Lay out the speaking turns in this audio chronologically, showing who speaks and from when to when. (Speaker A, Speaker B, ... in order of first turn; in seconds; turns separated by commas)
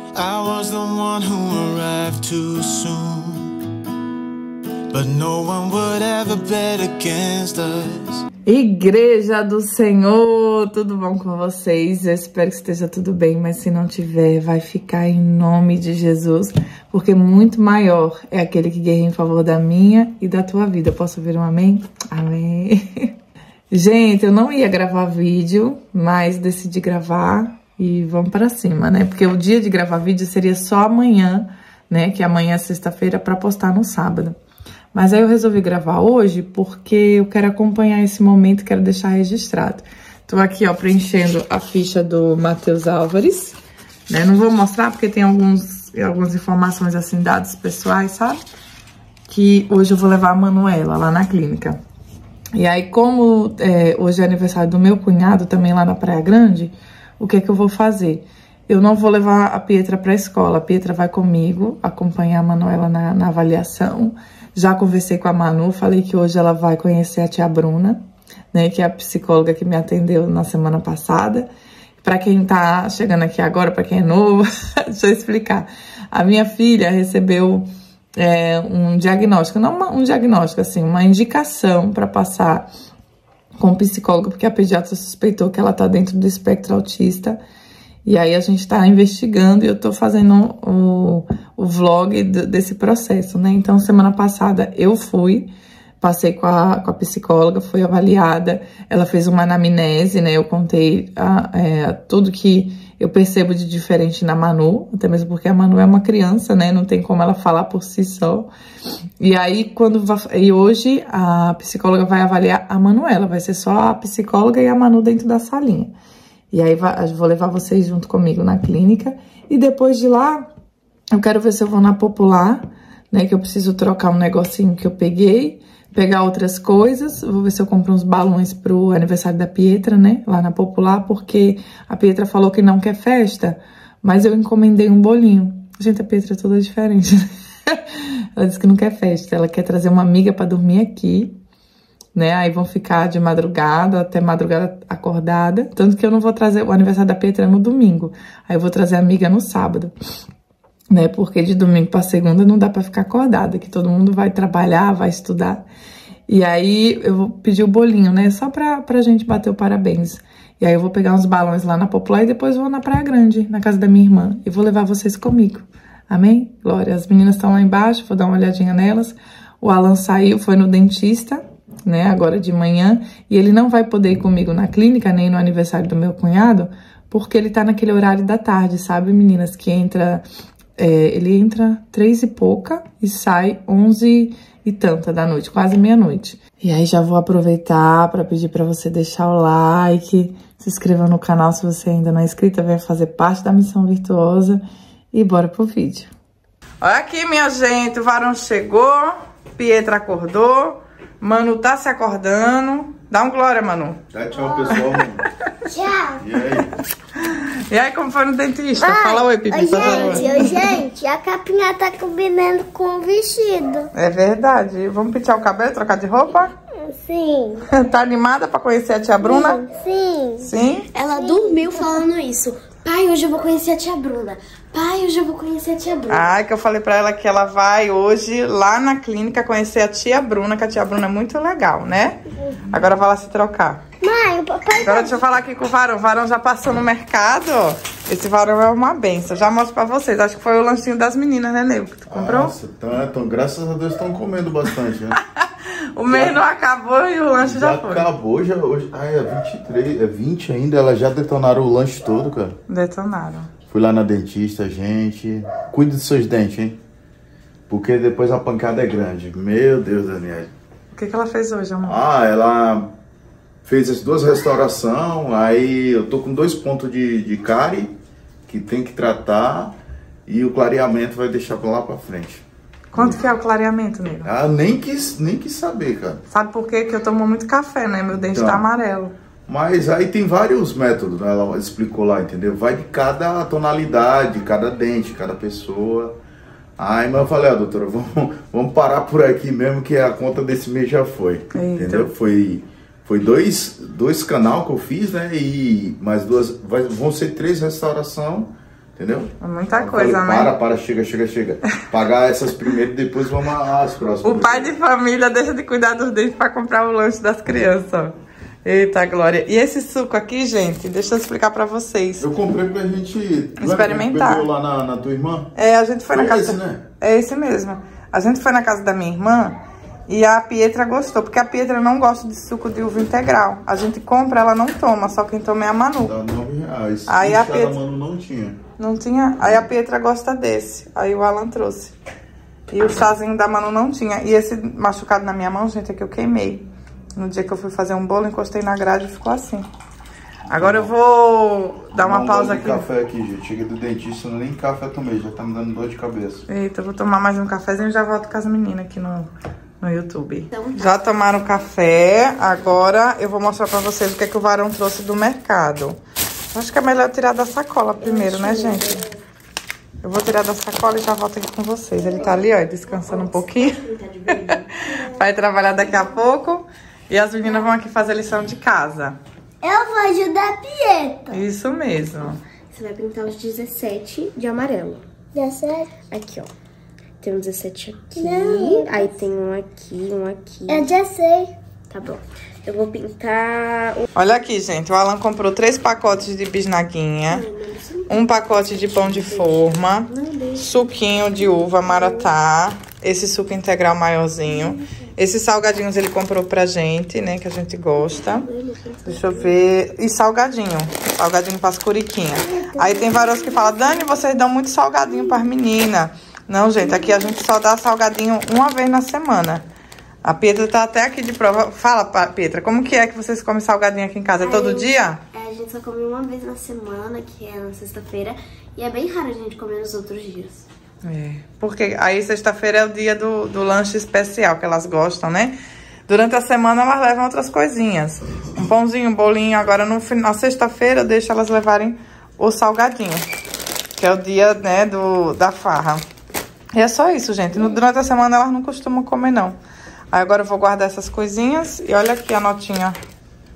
Speaker A: 0.1-3.5, Speaker A: 4.9-8.2, Speaker B: 8.5-23.1, Speaker B: 23.7-34.4, Speaker B: 34.9-43.6, Speaker B: 44.1-48.4, Speaker B: 49.3-51.8, Speaker B: 52.5-71.5, Speaker B: 72.0-82.7, Speaker B: 83.6-87.4, Speaker B: 88.0-108.5, Speaker B: 109.2-115.9, Speaker B: 116.5-120.5, Speaker B: 121.1-141.4, Speaker B: 142.1-149.9, Speaker B: 150.9-155.6, Speaker B: 156.3-180.2, Speaker B: 180.8-196.1, Speaker B: 196.8-204.0, Speaker C: 204.1-205.2, Speaker D: 205.7-206.2, Speaker C: 206.2-206.7, Speaker B: 207.2-210.5, Speaker D: 208.8-213.9, Speaker B: 213.9-216.5, Speaker D: 216.8-217.7, Speaker B: 217.7-219.6, Speaker D: 219.2-220.5, Speaker B: 220.4-220.9, Speaker E: 220.9-226.3, Speaker D: 221.2-221.5, Speaker B: 226.1-232.2, Speaker B: 232.7-233.8, Speaker D: 234.0-235.2, Speaker B: 234.8-242.5, Speaker C: 242.1-245.2, Speaker B: 245.2-248.1, Speaker C: 246.1-246.4, Speaker C: 247.4-252.6, Speaker B: 252.7-253.5, Speaker C: 253.7-256.8, Speaker C: 257.7-260.5, Speaker B: 260.9-262.0, Speaker C: 261.9-262.9, Speaker C: 263.6-267.9, Speaker C: 268.5-269.8, Speaker C: 270.2-273.2, Speaker B: 272.9-274.3, Speaker C: 274.2-276.2, Speaker B: 276.3-279.1, Speaker C: 278.1-278.6, Speaker C: 279.5-286.2, Speaker C: 286.8-304.7, Speaker B: 291.5-292.1, Speaker B: 299.4-300.5, Speaker B: 304.2-308.1, Speaker B: 308.6-312.3, Speaker C: 312.2-315.5, Speaker B: 313.6-314.5, Speaker B: 315.6-319.6, Speaker C: 316.1-316.8, Speaker B: 320.1-326.1, Speaker C: 326.0-328.6, Speaker B: 327.1-327.8, Speaker B: 328.8-331.9, Speaker B: 332.7-339.6, Speaker C: 340.5-340.9, Speaker B: 340.5-342.9, Speaker C: 341.9-346.4, Speaker B: 346.5-349.3, Speaker B: 349.8-356.0, Speaker E: 350.5-351.0, Speaker B: 356.5-359.1, Speaker E: 358.1-359.0, Speaker B: 360.0-369.2, Speaker E: 362.1-364.7, Speaker D: 369.6-371.4, Speaker B: 371.3-372.4, Speaker E: 372.7-375.0, Speaker D: 375.3-376.0, Speaker E: 376.1-376.5, Speaker E: 377.2-380.9, Speaker D: 378.1-379.1, Speaker D: 380.7-381.5, Speaker E: 381.9-384.1, Speaker B: 384.1-387.4, Speaker E: 387.3-390.8, Speaker B: 388.1-398.5, Speaker E: 398.5-399.3, Speaker B: 399.0-409.6, Speaker B: 410.2-415.2, Speaker E: 414.4-420.6, Speaker B: 421.0-425.6, Speaker B: 426.1-433.2, Speaker B: 434.0-436.0, Speaker B: 436.7-439.6, Speaker B: 440.1-443.0